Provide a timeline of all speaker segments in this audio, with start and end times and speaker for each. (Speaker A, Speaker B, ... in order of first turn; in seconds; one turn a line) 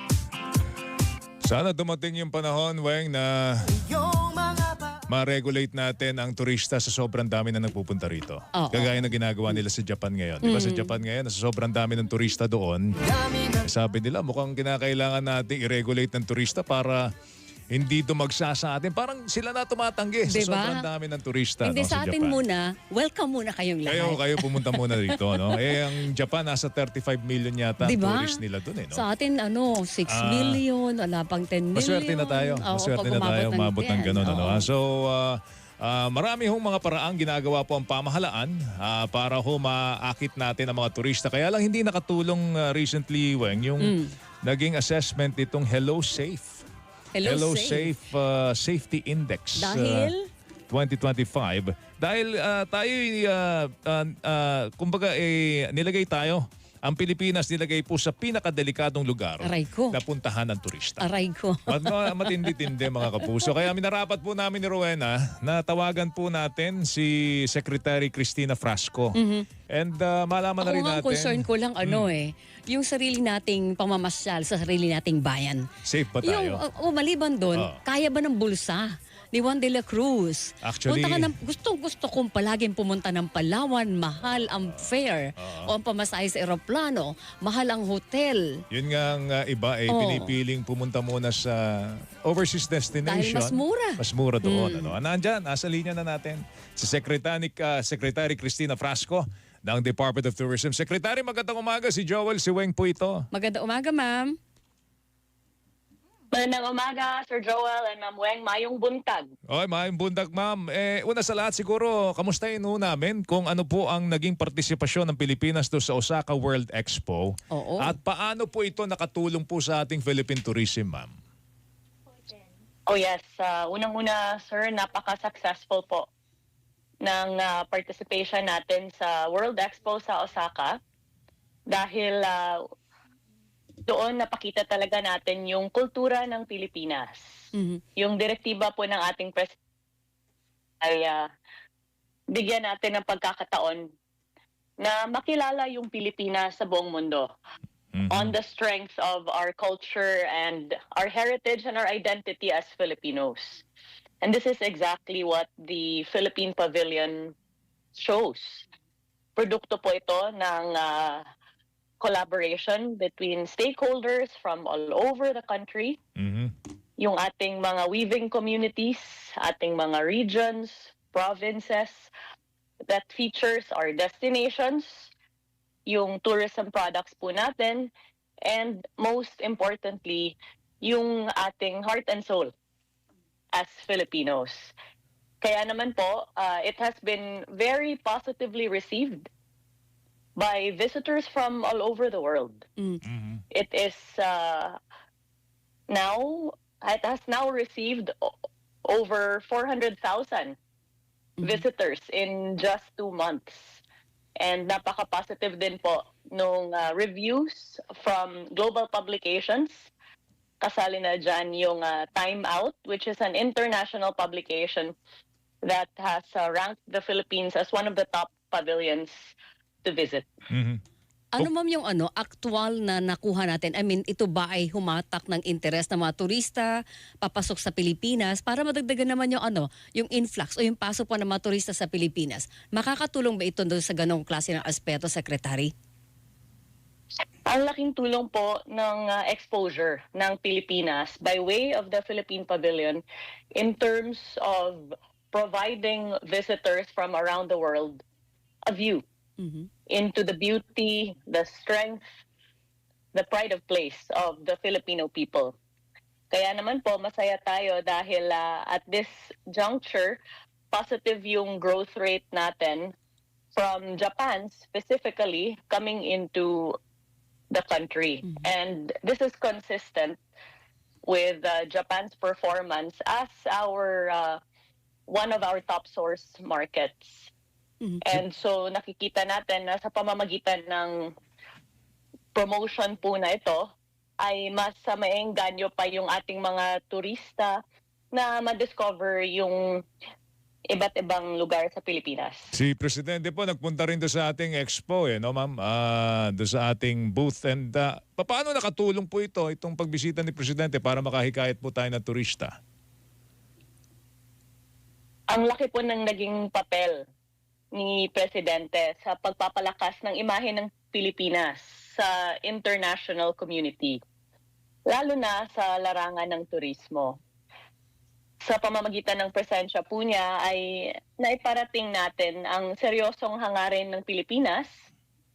Speaker A: 1.4-4.3
Speaker A: 5.0-17.1
Speaker B: 8.5-9.0
Speaker B: 10.4-10.9
Speaker A: 17.7-22.4
Speaker B: 20.3-20.9
Speaker B: 21.6-25.8
Speaker A: 23.9-29.0
Speaker B: 27.8-28.4
Speaker B: 28.9-34.7
Speaker A: 30.1-30.6
Speaker A: 31.7-46.6
Speaker B: 43.8-44.1
Speaker B: 47.1-47.9
Speaker A: 47.2-50.1
Speaker B: 49.6-50.3
Speaker A: 50.7-61.1
Speaker B: 59.4-60.0
Speaker B: 61.0-63.5
Speaker A: 61.7-69.2
Speaker B: 69.2-69.5
Speaker A: 69.7-72.1
Speaker B: 70.6-75.7
Speaker A: 75.8-76.6
Speaker B: 76.2-88.6
Speaker A: 77.5-77.8
Speaker A: 80.6-81.3
Speaker A: 85.4-85.7
Speaker A: 88.7-103.3
Speaker B: 89.9-90.3
Speaker B: 93.0-94.9
Speaker B: 103.3-104.4
Speaker C: 106.3-109.3
Speaker A: 109.5-121.1
Speaker B: 117.5-117.9
Speaker C: 122.9-126.0
Speaker C: 127.0-130.8
Speaker C: 131.7-132.6
Speaker C: 133.9-137.4
Speaker B: 137.5-137.8
Speaker C: 138.0-139.6
Speaker C: 140.8-141.3
Speaker C: 142.3-143.9
Speaker C: 144.8-147.3
Speaker A: 147.9-148.3
Speaker C: 148.1-153.7
Speaker C: 154.2-157.3
Speaker C: 157.9-158.7
Speaker C: 159.4-161.3
Speaker C: 162.0-166.0
Speaker A: 166.2-166.5
Speaker C: 167.0-172.1
Speaker C: 172.9-175.1
Speaker C: 175.9-177.9
Speaker C: 178.4-182.5
Speaker C: 183.5-184.7
Speaker C: 185.4-189.3
Speaker C: 190.4-192.7
Speaker A: 193.0-193.4
Speaker C: 193.5-194.8
Speaker C: 195.9-198.3
Speaker C: 198.8-200.6
Speaker B: 201.4-201.6
Speaker C: 201.4-203.8
Speaker C: 204.4-209.9
Speaker C: 210.6-214.9
Speaker C: 215.6-220.3
Speaker A: 220.5-220.8
Speaker B: 221.3-235.7
Speaker C: 237.5-243.0
Speaker C: 243.6-248.0
Speaker C: 248.7-249.0
Speaker B: 249.4-249.7
Speaker C: 249.9-252.1
Speaker C: 253.1-255.6
Speaker C: 256.3-260.2
Speaker C: 260.7-262.9
Speaker C: 263.5-266.8
Speaker C: 267.5-270.2
Speaker C: 271.1-274.4
Speaker C: 275.1-277.3
Speaker C: 278.0-281.1
Speaker C: 282.3-287.6
Speaker C: 288.1-289.8
Speaker C: 290.7-292.5
Speaker A: 292.5-302.5
Speaker C: 305.3-307.0
Speaker C: 307.8-314.0
Speaker C: 314.9-317.2
Speaker C: 318.4-324.7